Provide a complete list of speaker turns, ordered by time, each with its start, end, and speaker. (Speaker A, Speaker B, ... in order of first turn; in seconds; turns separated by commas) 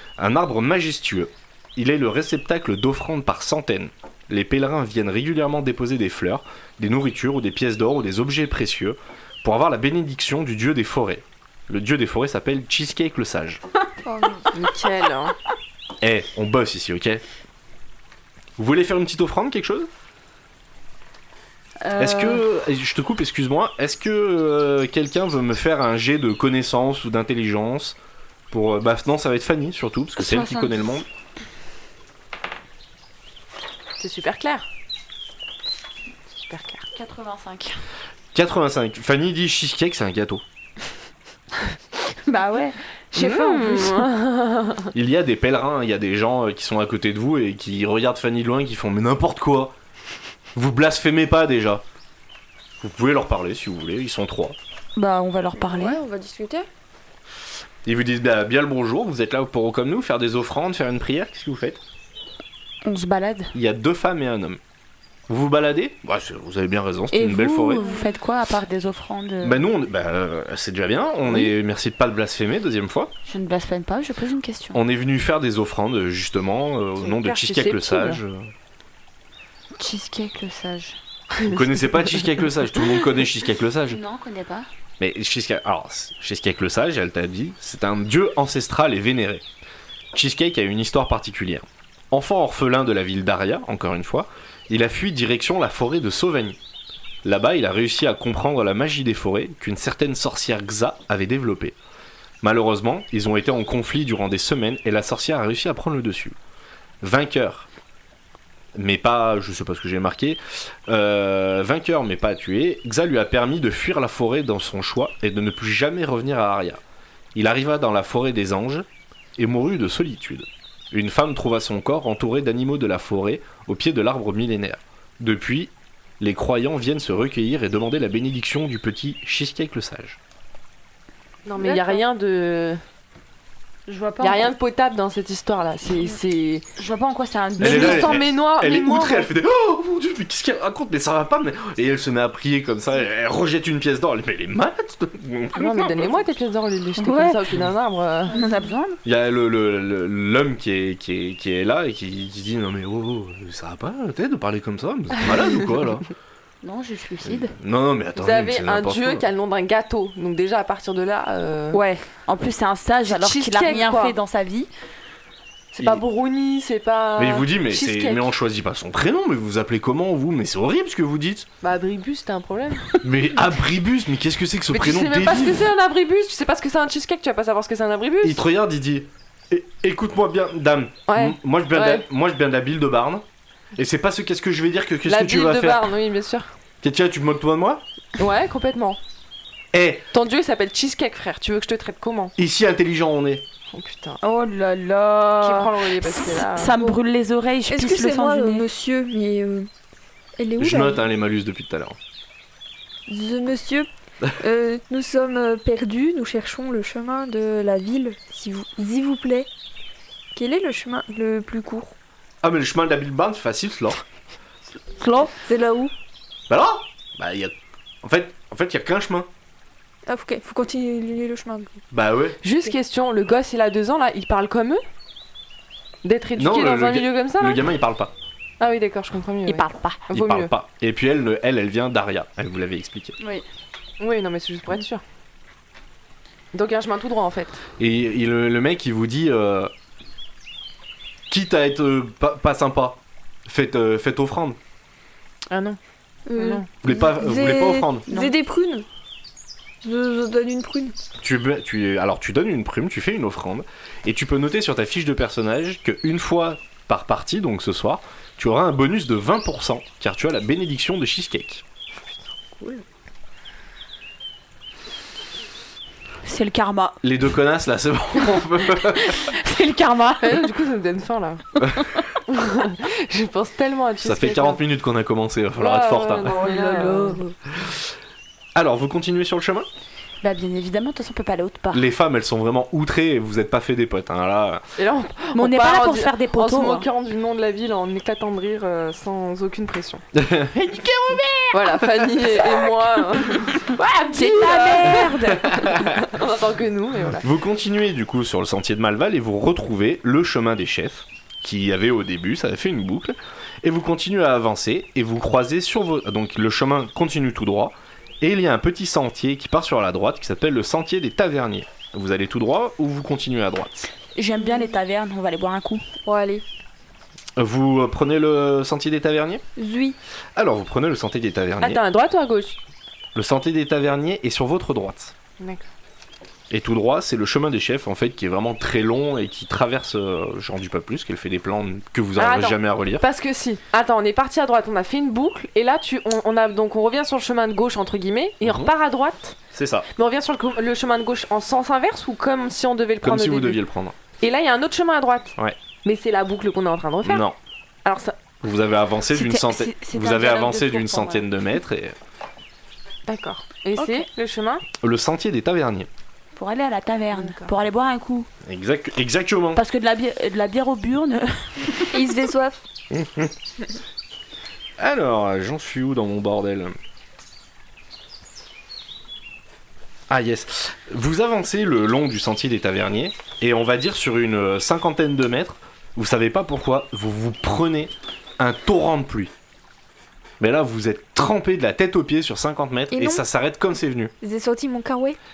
Speaker A: 0.2-13.6, Speaker B: 14.0-14.5, Speaker C: 14.5-15.3, Speaker A: 16.0-17.2, Speaker A: 18.6-19.9, Speaker D: 21.8-22.4, Speaker A: 22.0-28.0, Speaker A: 28.5-31.0, Speaker D: 30.2-31.0, Speaker C: 34.0-34.6, Speaker C: 36.3-36.9, Speaker D: 36.9-37.8, Speaker A: 38.3-40.4, Speaker D: 42.2-44.1, Speaker C: 43.1-44.9, Speaker A: 44.9-49.7, Speaker A: 50.5-51.8, Speaker A: 52.8-54.5, Speaker D: 55.0-56.0, Speaker B: 55.5-56.7, Speaker A: 57.8-61.8, Speaker D: 62.8-63.5, Speaker A: 63.5-64.6, Speaker A: 65.3-67.9, Speaker D: 67.1-69.6, Speaker A: 69.4-73.1, Speaker D: 73.2-74.8, Speaker A: 74.7-78.5, Speaker C: 77.0-78.2, Speaker D: 79.7-81.0, Speaker A: 81.4-84.0, Speaker D: 83.9-84.7, Speaker A: 85.0-89.4, Speaker A: 90.1-96.6, Speaker A: 97.2-101.8, Speaker A: 102.4-106.3, Speaker A: 107.0-107.7, Speaker A: 108.7-116.8, Speaker A: 117.3-130.2, Speaker C: 131.4-132.8, Speaker D: 131.6-132.0, Speaker D: 133.9-134.5, Speaker C: 134.2-136.7, Speaker D: 136.8-138.2, Speaker C: 137.6-139.3, Speaker A: 137.6-146.2, Speaker C: 145.5-148.4, Speaker D: 147.0-147.4, Speaker D: 148.3-149.0, Speaker A: 149.0-156.0, Speaker D: 156.6-157.5, Speaker A: 157.2-159.2, Speaker C: 158.2-161.8, Speaker D: 161.7-164.7, Speaker C: 163.1-164.2, Speaker C: 165.7-168.3, Speaker A: 167.2-171.5, Speaker C: 171.6-173.0, Speaker A: 173.0-175.7, Speaker C: 174.7-178.4, Speaker A: 178.2-183.2, Speaker C: 181.1-182.1, Speaker A: 183.8-185.8, Speaker C: 185.1-186.5, Speaker A: 186.8-187.8, Speaker C: 188.2-189.0, Speaker A: 189.7-190.0, Speaker C: 190.1-192.3, Speaker A: 192.4-193.4, Speaker C: 193.7-194.2, Speaker D: 194.2-198.6, Speaker C: 195.4-196.8, Speaker B: 197.7-199.7, Speaker B: 200.4-201.0, Speaker A: 200.6-202.0, Speaker B: 203.1-209.5, Speaker B: 210.3-211.9, Speaker A: 212.4-214.0, Speaker D: 215.0-215.3, Speaker B: 215.3-215.9, Speaker A: 216.5-219.3, Speaker B: 220.1-221.8, Speaker A: 221.9-222.4, Speaker C: 222.4-224.8, Speaker C: 226.0-227.6, Speaker A: 226.3-228.1, Speaker C: 228.6-230.5, Speaker D: 229.4-230.0, Speaker A: 230.1-233.2, Speaker D: 233.2-233.4, Speaker C: 234.0-235.0, Speaker C: 236.5-237.6, Speaker A: 237.8-239.7, Speaker A: 241.3-244.6, Speaker C: 245.5-245.8, Speaker B: 246.3-248.8, Speaker C: 246.3-246.7, Speaker A: 246.8-248.1, Speaker D: 248.1-248.3, Speaker B: 249.8-250.9, Speaker A: 251.2-261.6, Speaker C: 262.6-262.8, Speaker D: 266.2-267.0, Speaker A: 267.0-269.2, Speaker D: 269.1-270.5, Speaker C: 270.2-271.4, Speaker C: 272.3-274.6, Speaker A: 274.0-276.3, Speaker C: 275.6-277.2, Speaker D: 276.2-277.3, Speaker A: 277.5-277.9, Speaker A: 278.5-279.7, Speaker D: 280.2-281.9, Speaker A: 281.7-284.6, Speaker C: 284.8-290.0, Speaker D: 285.3-286.9, Speaker A: 290.1-291.7, Speaker C: 291.5-297.2, Speaker D: 293.6-295.7, Speaker A: 295.3-296.1, Speaker A: 297.2-313.9, Speaker D: 314.1-315.8, Speaker B: 316.0-316.4, Speaker A: 317.4-319.4, Speaker B: 319.6-320.0, Speaker A: 320.4-321.8, Speaker C: 321.6-322.6, Speaker A: 323.1-325.1, Speaker C: 325.4-325.6, Speaker A: 326.5-333.0, Speaker C: 332.2-339.4, Speaker A: 338.4-338.7, Speaker A: 339.5-339.9, Speaker C: 339.9-343.6, Speaker A: 343.0-343.9, Speaker C: 344.2-347.3, Speaker A: 347.0-347.4, Speaker C: 347.8-348.2, Speaker A: 348.4-351.9, Speaker D: 349.1-351.2, Speaker C: 353.1-354.6, Speaker D: 353.8-354.1, Speaker A: 354.8-355.9, Speaker D: 356.3-358.3, Speaker C: 357.1-357.5, Speaker A: 358.4-359.6, Speaker D: 359.5-361.9, Speaker B: 361.9-362.6, Speaker A: 362.9-363.3, Speaker A: 364.8-366.8, Speaker A: 370.1-379.3, Speaker A: 380.4-384.1, Speaker B: 382.9-383.2, Speaker B: 384.2-385.2